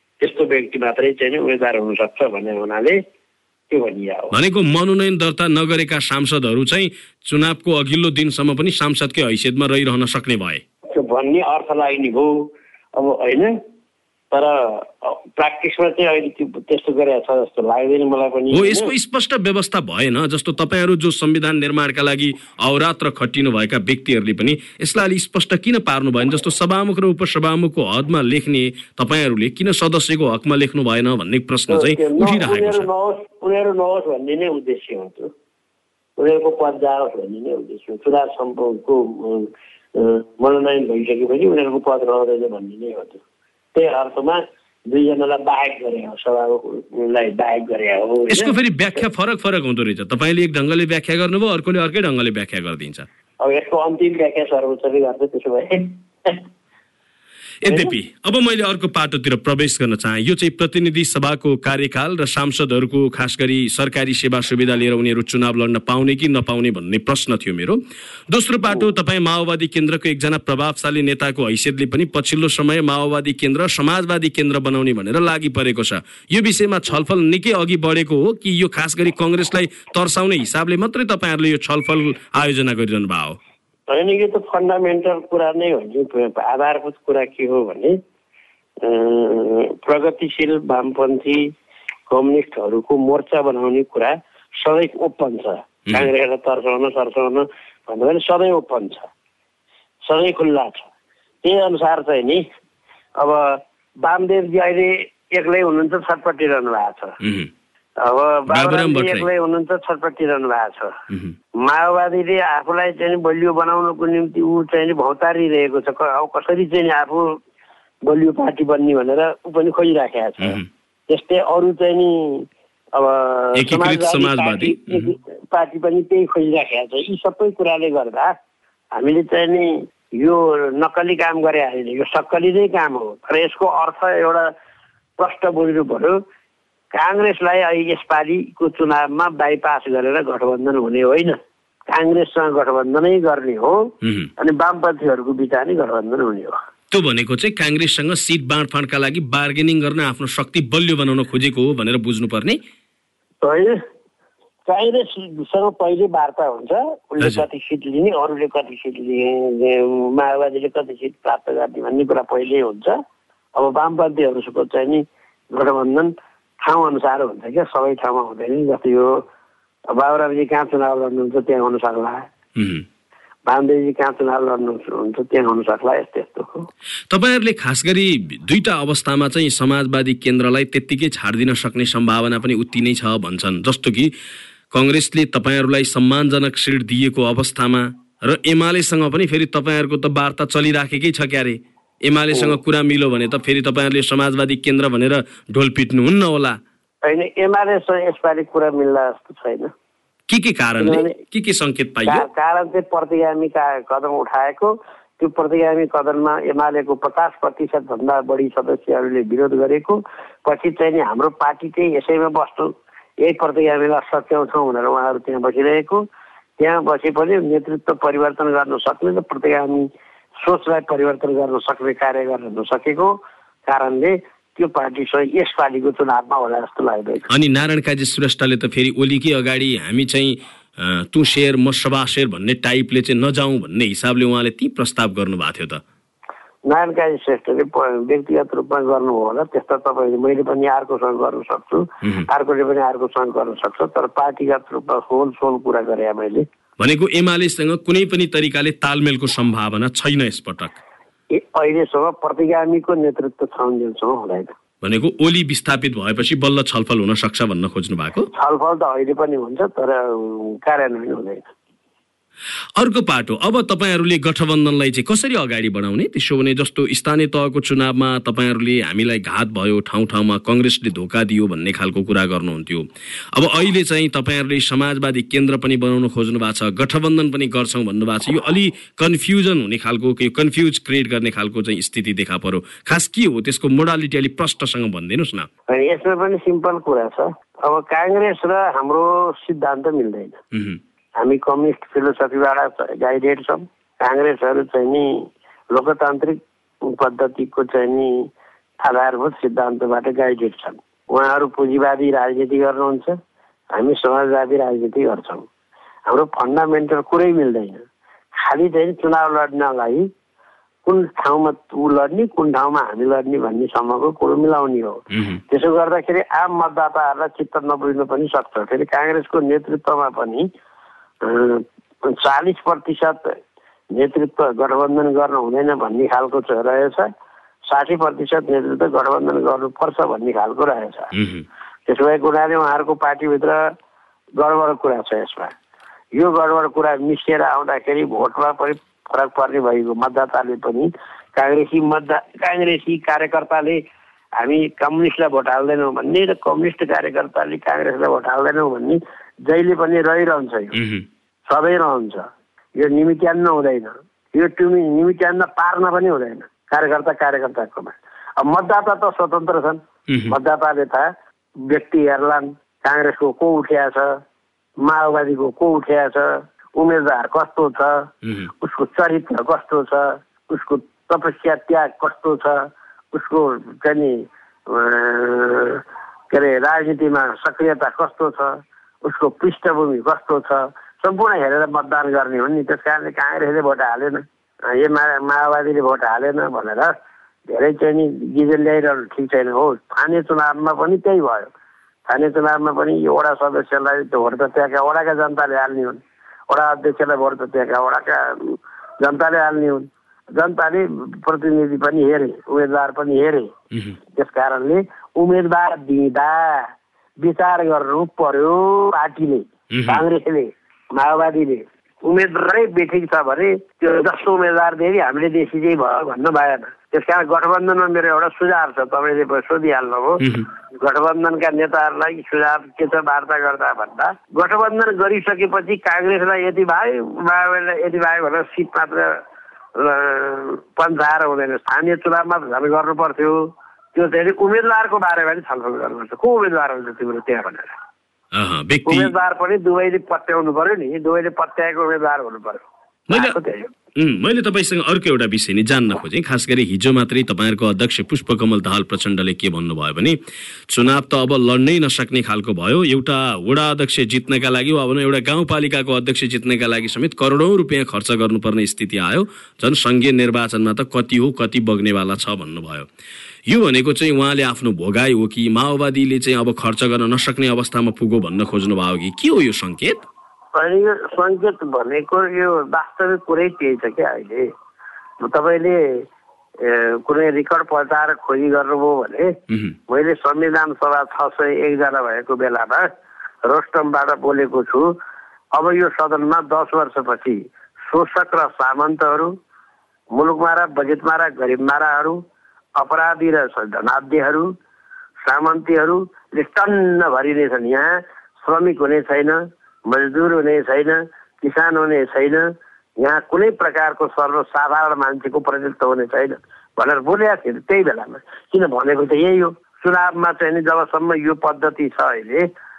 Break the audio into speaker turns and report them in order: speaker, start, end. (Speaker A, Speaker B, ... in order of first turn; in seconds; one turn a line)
Speaker A: 0.2-3.0
Speaker A: 3.7-4.3
Speaker B: 4.3-10.6
Speaker A: 10.9-13.6
Speaker A: 14.3-18.9
Speaker B: 18.5-32.9
Speaker A: 31.7-35.3
Speaker A: 36.2-43.2
Speaker A: 43.7-49.0
Speaker B: 48.3-53.1
Speaker A: 53.4-56.4
Speaker B: 57.6-67.8
Speaker A: 57.7-57.9
Speaker B: 68.3-83.4
Speaker A: 83.9-88.0
Speaker A: 88.8-91.5
Speaker A: 92.1-99.1
Speaker A: 100.0-100.9
Speaker A: 101.4-102.4
Speaker A: 103.2-107.2
Speaker B: 107.2-107.5
Speaker A: 108.0-111.0
Speaker B: 108.5-109.3
Speaker A: 111.6-117.4
Speaker A: 118.1-128.3
Speaker B: 123.6-125.1
Speaker A: 128.9-134.5
Speaker A: 135.2-136.2
Speaker A: 136.9-141.4
Speaker A: 141.9-146.6
Speaker B: 144.0-144.3
Speaker B: 146.9-152.6
Speaker A: 153.4-153.8
Speaker A: 154.7-163.0
Speaker A: 163.6-169.2
Speaker A: 169.9-172.3
Speaker B: 172.6-172.8
Speaker A: 173.5-176.7
Speaker B: 177.1-184.1
Speaker B: 184.7-196.6
Speaker A: 197.1-199.7
Speaker B: 200.3-202.2
Speaker A: 200.8-201.2
Speaker A: 202.1-212.7
Speaker A: 213.2-216.1
Speaker A: 216.6-219.9
Speaker A: 220.4-227.3
Speaker B: 227.3-235.8
Speaker A: 236.7-246.5
Speaker B: 246.8-250.8
Speaker A: 251.3-254.5
Speaker B: 254.8-258.3
Speaker A: 258.3-261.5
Speaker B: 262.8-285.5
Speaker A: 285.7-290.4
Speaker B: 290.5-290.8
Speaker A: 291.2-298.2
Speaker A: 298.8-303.2
Speaker A: 303.7-305.5
Speaker A: 306.1-307.8
Speaker A: 308.4-310.1
Speaker A: 310.9-320.5
Speaker B: 315.1-315.4
Speaker A: 321.2-323.3
Speaker A: 323.9-327.1
Speaker A: 327.7-331.1
Speaker B: 331.1-331.4
Speaker A: 331.9-333.6
Speaker A: 334.4-335.5
Speaker A: 336.1-343.8
Speaker A: 344.4-350.8
Speaker B: 350.8-351.0
Speaker A: 351.5-352.3
Speaker A: 352.8-361.1
Speaker A: 361.7-364.2
Speaker A: 364.8-368.1
Speaker B: 368.2-368.5
Speaker A: 368.6-386.9
Speaker A: 387.5-391.5
Speaker A: 392.1-403.5
Speaker A: 404.1-406.7
Speaker A: 407.2-420.2
Speaker B: 409.7-410.0
Speaker A: 420.8-429.2
Speaker A: 429.8-433.4
Speaker A: 433.9-437.8
Speaker B: 438.3-439.1
Speaker A: 438.9-443.7
Speaker B: 443.1-443.4
Speaker B: 444.0-450.2
Speaker B: 450.7-462.9
Speaker B: 463.5-470.0
Speaker A: 470.5-474.5
Speaker A: 475.2-476.0
Speaker A: 476.6-479.4
Speaker A: 479.9-482.9
Speaker A: 483.4-484.9
Speaker A: 485.6-489.3
Speaker A: 490.1-492.2
Speaker A: 492.8-494.5
Speaker A: 495.2-502.5
Speaker A: 503.0-512.5